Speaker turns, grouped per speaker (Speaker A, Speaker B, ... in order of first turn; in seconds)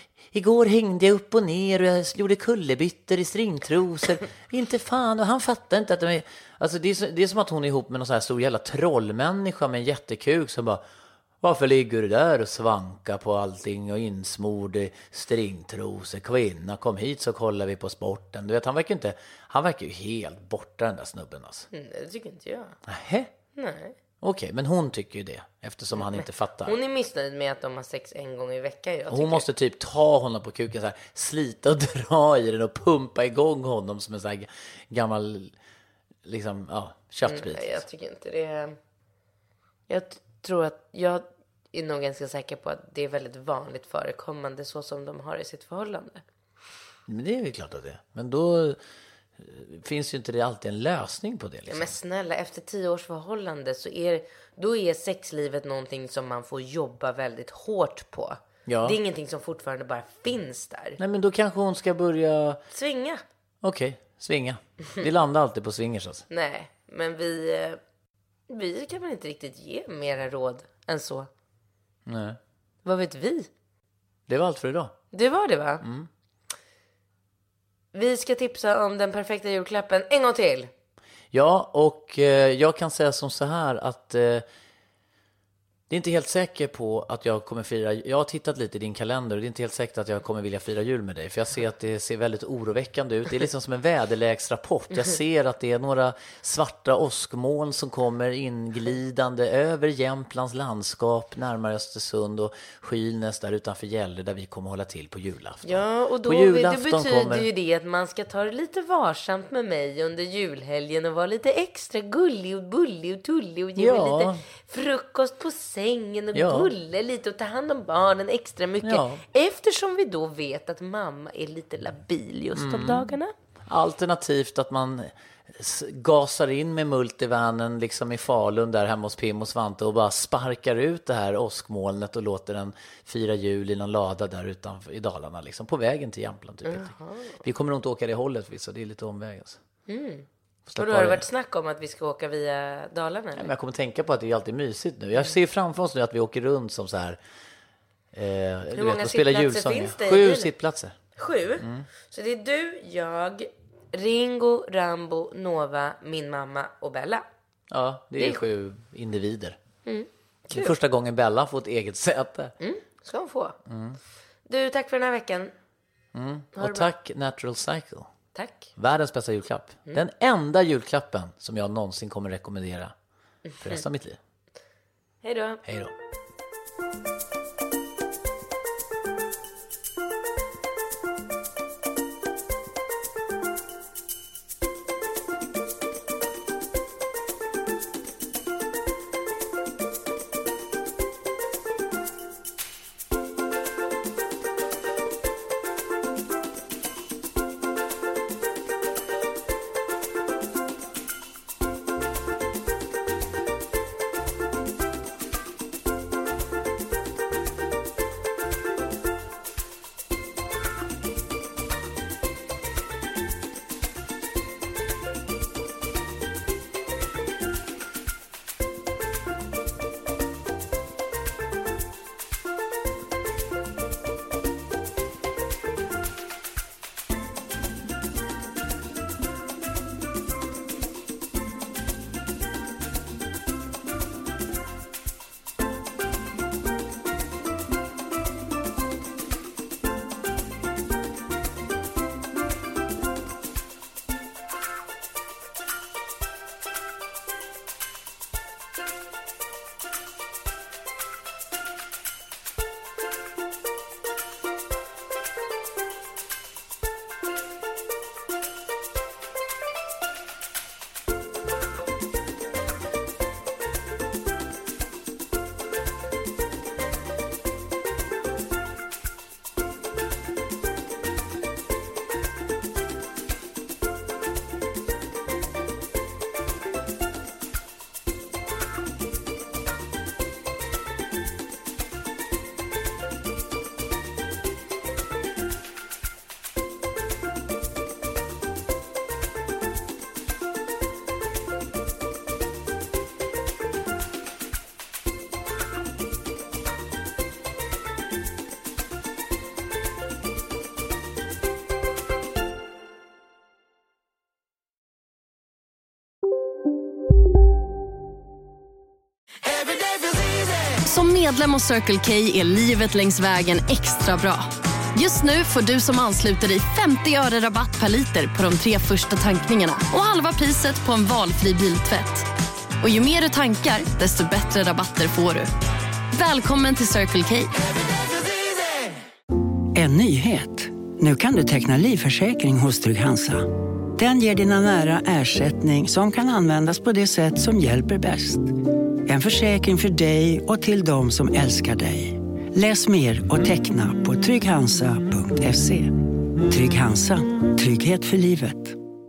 Speaker A: 0.2-10.8, 11.4-21.7, 22.9-23.3, 24.2-26.8, 29.1-35.5, 36.2-37.8, 47.1-48.8, 49.4-51.9, 58.7-59.0, 61.0-62.6, 63.6-66.2, 72.1-72.4, 74.3-75.0, 75.8-76.1, 81.3-84.5, 85.9-107.5, 113.8-114.4, 116.3-116.7, 118.8-119.2, 122.5-123.1, 123.7-139.6, 140.7-141.3, 143.3-147.2, 148.1-151.0, 151.6-151.9, 157.7-159.6, 160.5-162.5, 163.7-164.0, 166.1-168.1, 168.8-172.9, 173.6-174.2, 175.6-175.9
Speaker B: 21.7-22.8, 23.6-24.0, 25.9-29.5, 37.3-38.8, 39.9-46.2, 51.7-61.0, 62.7-63.2, 66.3-67.8, 68.5-71.3, 72.8-73.5, 75.1-75.8, 77.9-80.7, 105.6-123.3, 136.7-137.4, 139.9-143.5, 148.7-150.5, 151.2-157.2, 159.9-160.7, 162.6-163.6, 164.5-165.5, 166.6-166.9, 168.3-168.7, 173.5-173.8, 175.2-175.6
Speaker C: 310.8-322.3, 322.8-325.5, 326.1-327.5
Speaker D: 329.8-338.5, 339.1-348.8